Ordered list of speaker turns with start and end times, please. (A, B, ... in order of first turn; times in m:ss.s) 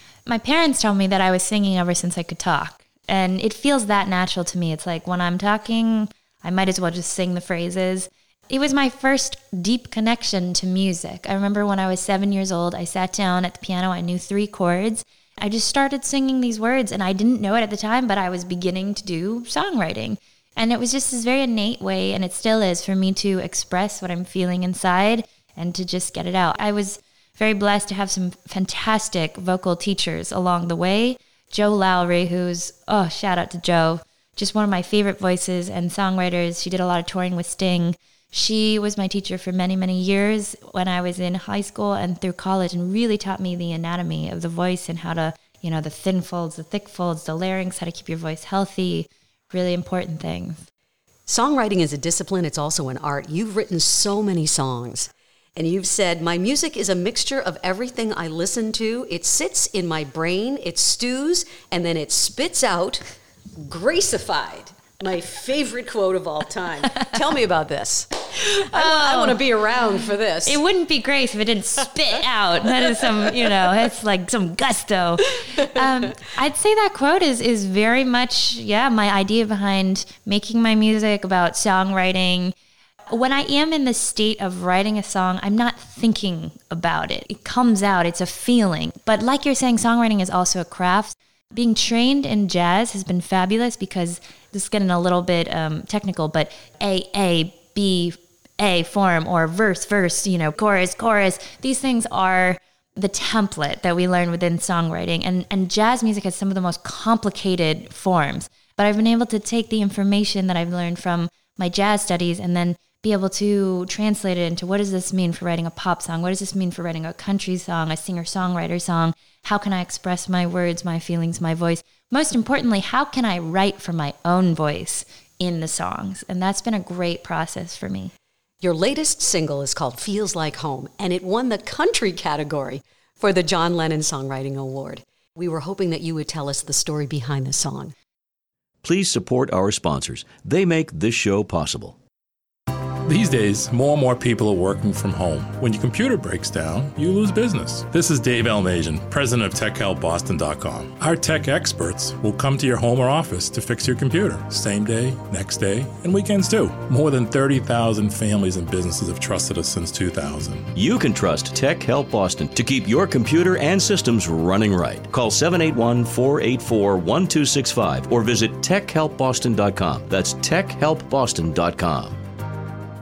0:00.2-0:50.7 A
0:51.3-1:10.6 B
1:08.5-1:09.4 A
1:10.4-1:22.5 A
1:23.1-2:08.1 A
2:08.6-2:17.9 B
2:18.8-2:22.0 C
2:23.0-2:40.7 D
2:40.7-2:52.2 C